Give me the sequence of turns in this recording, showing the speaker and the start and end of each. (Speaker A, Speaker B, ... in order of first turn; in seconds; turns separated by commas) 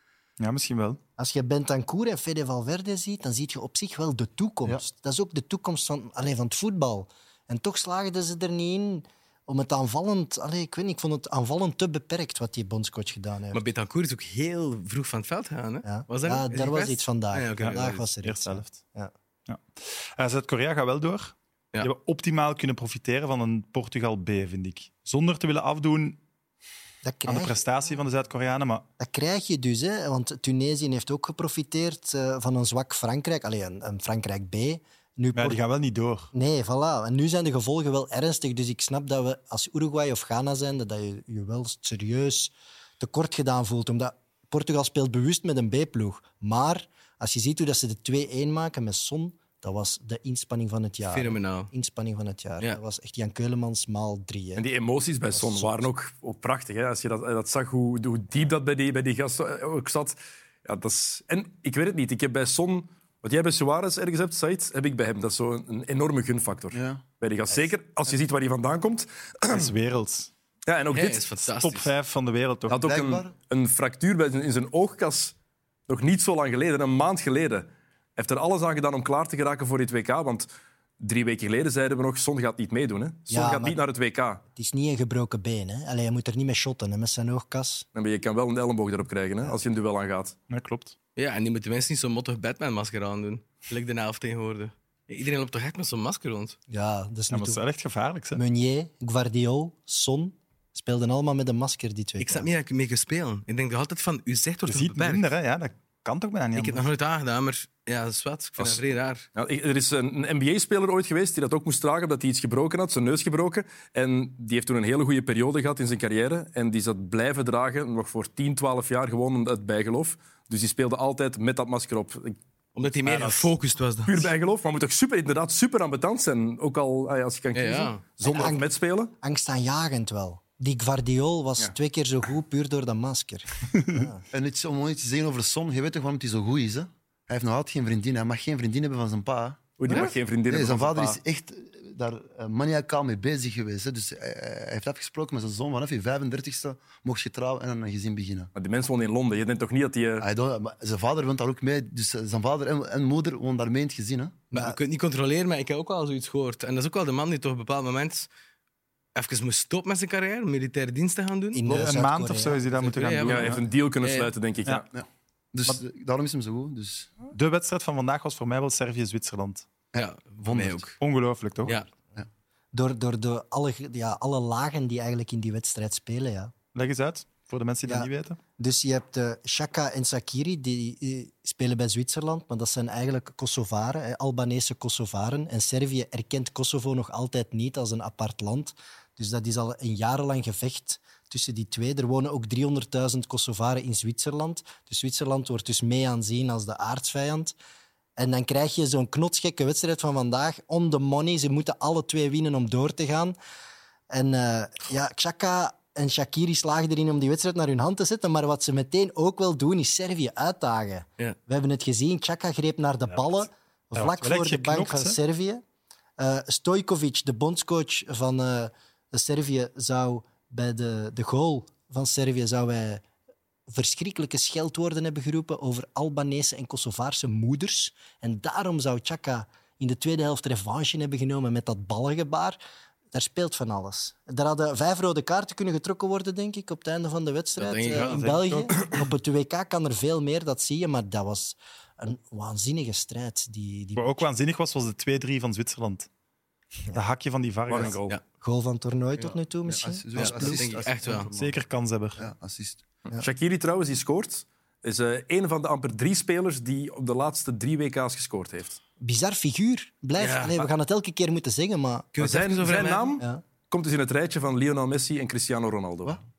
Speaker A: 0.4-1.0, Speaker B: 1.2-13.6, Speaker C: 13.5-18.1, Speaker B: 15.8-19.1, Speaker A: 17.6-18.8, Speaker A: 19.5-26.2, Speaker B: 27.0-27.6, Speaker A: 27.3-28.9, Speaker B: 29.0-35.6, Speaker A: 35.4-36.3, Speaker B: 36.3-54.7, Speaker C: 51.1-51.7, Speaker D: 54.6-69.7, Speaker B: 55.3-55.9, Speaker E: 66.7-67.0, Speaker A: 69.5-70.3, Speaker D: 70.7-71.3, Speaker C: 70.9-71.9, Speaker A: 71.5-72.8, Speaker D: 72.7-75.3, Speaker E: 72.7-73.3, Speaker D: 75.9-80.5, Speaker D: 81.0-84.4, Speaker B: 83.3-83.8, Speaker B: 84.5-87.9, Speaker D: 87.9-90.4, Speaker A: 90.5-90.9, Speaker C: 91.2-96.6, Speaker B: 96.7-97.6, Speaker A: 97.3-98.4, Speaker B: 98.3-102.5, Speaker C: 102.2-105.3, Speaker A: 104.7-106.9, Speaker C: 106.6-109.3, Speaker D: 109.4-122.4, Speaker C: 122.7-124.3, Speaker A: 123.1-123.3, Speaker D: 124.1-129.1, Speaker C: 127.5-128.1, Speaker B: 128.2-134.2, Speaker E: 134.3-148.5, Speaker D: 139.8-141.2, Speaker D: 148.6-150.2, Speaker E: 150.2-154.4, Speaker C: 154.5-158.3, Speaker C: 159.2-161.9, Speaker B: 161.5-162.6, Speaker A: 161.7-163.6, Speaker C: 162.7-164.3, Speaker D: 163.2-164.9, Speaker E: 164.9-167.1, Speaker A: 167.3-169.7, Speaker E: 169.9-170.8, Speaker C: 169.9-171.0, Speaker A: 171.0-171.8, Speaker B: 172.7-176.5, Speaker A: 176.7-178.4, Speaker B: 177.9-197.5, Speaker B: 198.2-203.3, Speaker B: 204.1-215.6, Speaker A: 213.9-215.2, Speaker B: 216.2-223.0, Speaker B: 223.7-232.6, Speaker B: 233.1-244.2, Speaker C: 237.6-238.2, Speaker A: 238.0-238.8, Speaker A: 244.0-246.1, Speaker A: 246.9-248.0, Speaker D: 247.7-248.2, Speaker B: 248.4-250.7, Speaker E: 249.2-251.6, Speaker C: 250.2-251.3, Speaker A: 251.3-252.2, Speaker E: 252.2-252.8, Speaker D: 253.1-258.8, Speaker B: 259.0-262.2, Speaker C: 260.2-260.7, Speaker C: 262.1-263.1, Speaker D: 262.2-266.2